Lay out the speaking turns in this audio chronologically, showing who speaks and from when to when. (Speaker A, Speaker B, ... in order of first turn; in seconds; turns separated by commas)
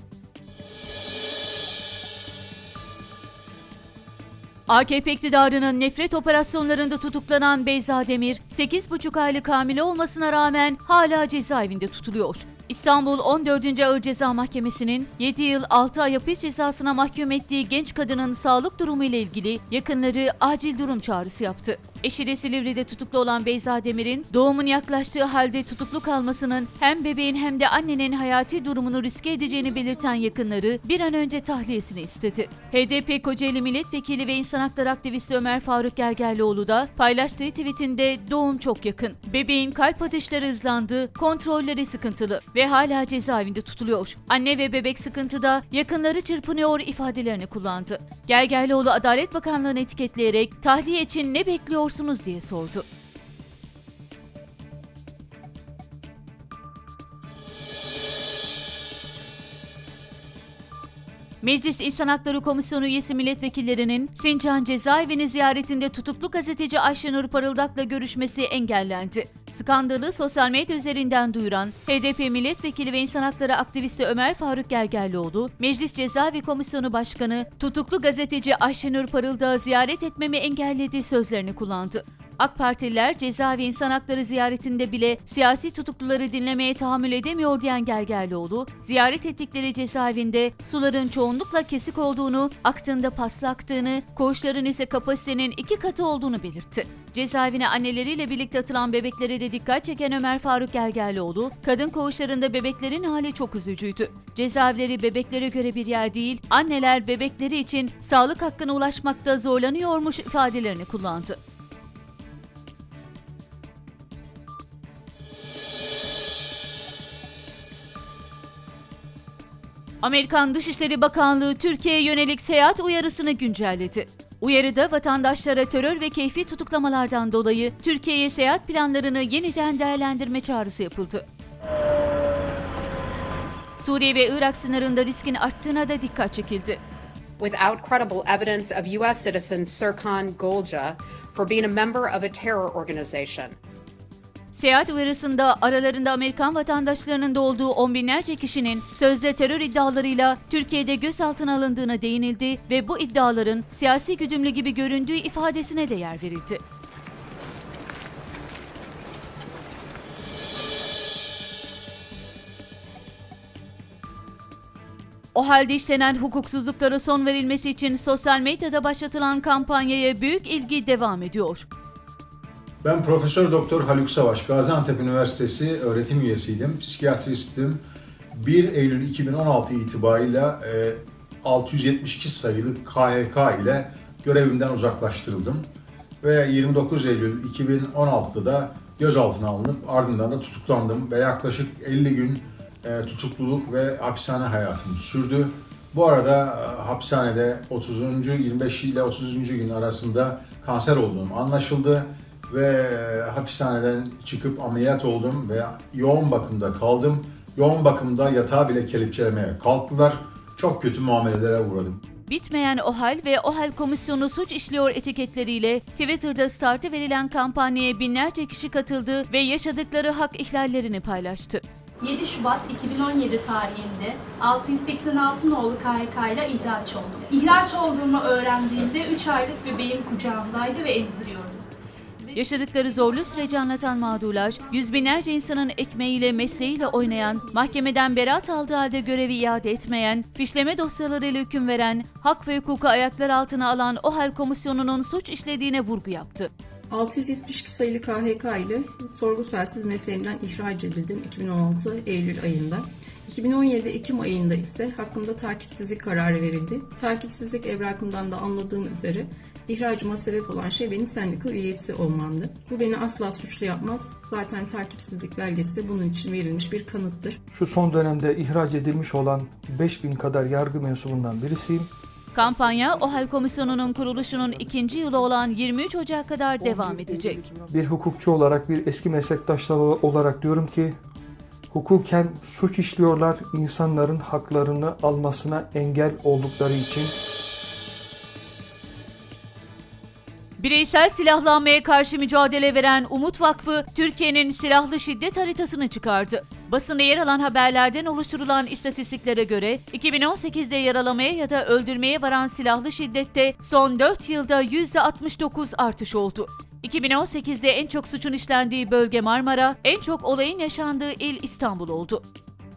Speaker A: 4.7-52.8, Speaker A: 61.4-111.4, Speaker A: 120.0-131.2, Speaker A: 133.8-136.8, Speaker B: 137.4-143.6, Speaker A: 144.5-156.6, Speaker A: 165.3-171.7, Speaker C: 172.8-177.8, Speaker C: 178.3-185.7, Speaker C: 186.2-212.0, Speaker A: 212.3-221.6, Speaker D: 222.0-231.6, Speaker D: 232.3-233.6, Speaker A: 232.3-246.5, Speaker D: 234.2-234.8, Speaker D: 236.3-237.5, Speaker E: 246.9-267.4, Speaker F: 267.5-271.9, Speaker A: 272.3-277.4, Speaker F: 277.7-281.0, Speaker F: 281.7-287.1, Speaker A: 290.6-312.2